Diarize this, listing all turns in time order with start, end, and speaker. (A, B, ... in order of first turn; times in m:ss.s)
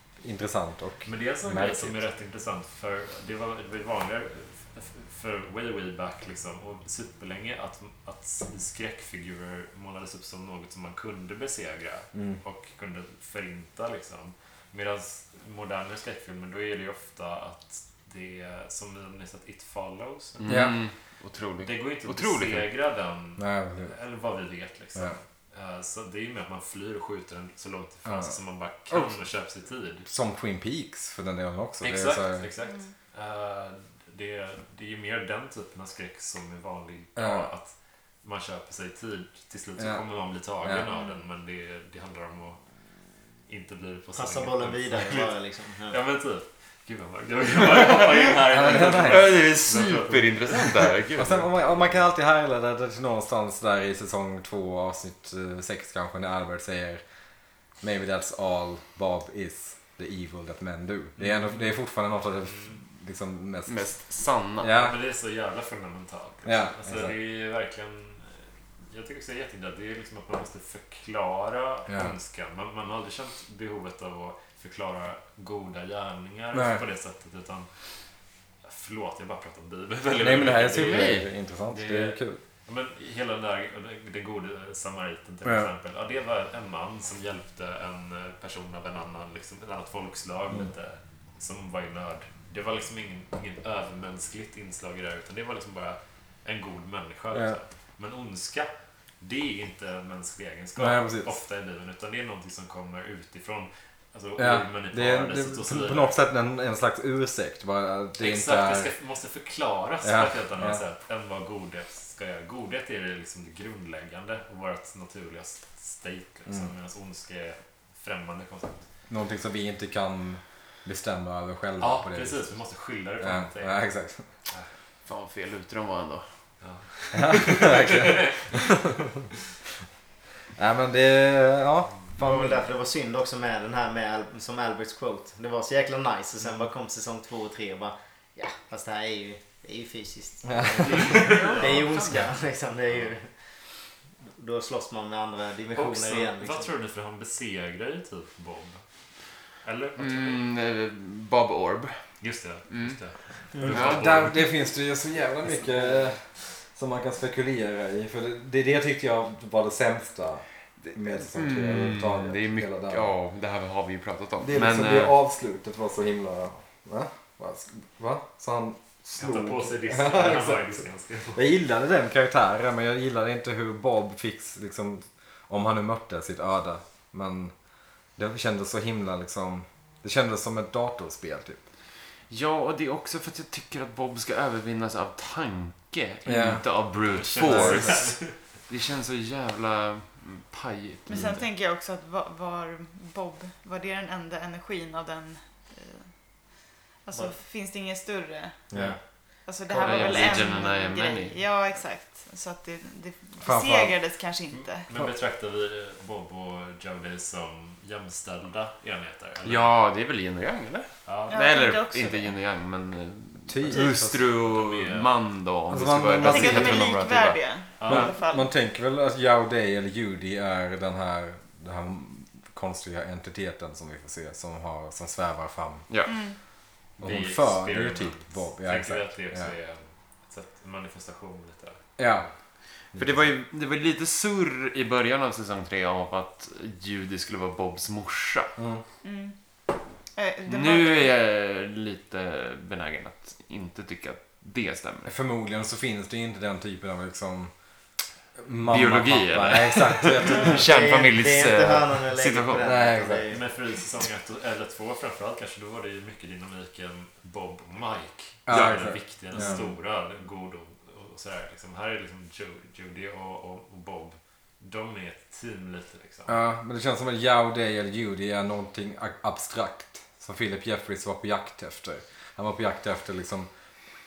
0:00.2-0:02.0 A
0:01.0-0:20.7 B
0:12.1-0:12.4 A
0:20.4-0:22.7 C
0:20.5-0:20.8 A
0:21.6-0:30.1 B
0:23.4-0:23.9 A
0:28.0-0:28.4 A
0:28.9-0:29.2 A
0:30.0-0:32.5 A
0:31.8-0:42.6 B
0:32.6-0:32.9 D
0:37.2-0:37.5 A
0:39.8-0:40.0 A
0:40.9-0:41.2 D
0:43.5-0:50.7 B
0:44.1-0:46.0 E
0:48.5-0:49.2 A
0:48.8-0:51.5 C
0:51.2-0:57.0 A
0:57.8-1:03.9 A
1:01.2-1:01.6 B
1:03.7-1:04.9 C
1:04.6-1:05.0 A
1:04.7-1:17.7 B
1:06.4-1:07.1 A
1:11.9-1:12.1 A
1:16.5-1:16.8 A
1:18.6-1:46.2 B
1:20.2-1:22.4 A
1:20.7-1:21.3 C
1:25.4-1:25.7 A
1:37.3-1:37.6 A
1:40.8-1:41.4 A
1:44.4-1:48.9 A
1:48.2-1:58.8 B
1:50.0-1:50.8 A
1:59.1-2:02.5 A
2:01.8-2:03.8 B
2:03.2-2:04.3 A
2:05.0-2:06.2 C
2:06.6-2:08.6 B
2:07.1-2:09.0 A
2:10.6-2:12.2 A
2:12.2-2:23.3 E
2:12.2-2:12.5 B
2:20.4-2:21.2 A
2:20.8-2:21.9 B
2:21.1-2:22.3 C
2:24.3-2:26.7 E
2:25.7-2:28.8 B
2:29.6-2:30.4 B
2:30.0-2:32.0 C
2:32.2-2:34.4 B
2:32.7-2:33.0 C
2:33.7-2:34.4 C
2:33.7-2:43.1 A
2:40.8-2:45.2 C
2:44.4-2:50.7 A
2:49.2-2:51.4 B
2:51.3-2:57.5 A
2:58.2-3:01.6 A
3:02.3-3:11.4 C
3:06.2-3:06.7 A
3:07.1-3:08.4 B
3:07.4-3:08.0 A
3:11.1-3:16.1 D
3:11.1-3:11.4 A
3:17.0-3:18.6 D
3:18.7-3:19.0 A
3:19.4-3:24.8 D
3:19.7-3:21.4 C
3:19.9-3:20.5 B
3:23.4-3:24.0 A
3:24.5-3:29.7 B
3:29.4-3:38.1 C
3:31.0-3:31.4 B
3:31.3-3:32.4 D
3:33.5-3:34.2 A
3:33.7-3:35.1 B
3:35.7-3:36.9 A
3:36.2-3:38.5 D
3:37.8-3:38.1 B
3:37.9-3:45.9 A
3:45.9-3:46.2 C
3:46.0-3:46.4 D
3:47.0-3:51.8 B
3:47.0-3:49.5 A
3:52.0-3:52.3 A
3:52.9-3:53.3 A
3:52.9-3:58.5 C
3:58.6-3:58.8 A
3:59.0-3:59.4 D
4:00.1-4:01.1 D
4:00.4-4:05.2 C
4:05.0-4:07.5 A
4:08.4-4:10.6 A
4:08.7-4:13.0 C
4:10.5-4:13.4 E
4:12.6-4:13.3 A
4:13.3-4:26.3 B
4:18.4-4:19.7 A
4:18.5-4:19.6 C
4:26.3-4:33.5 A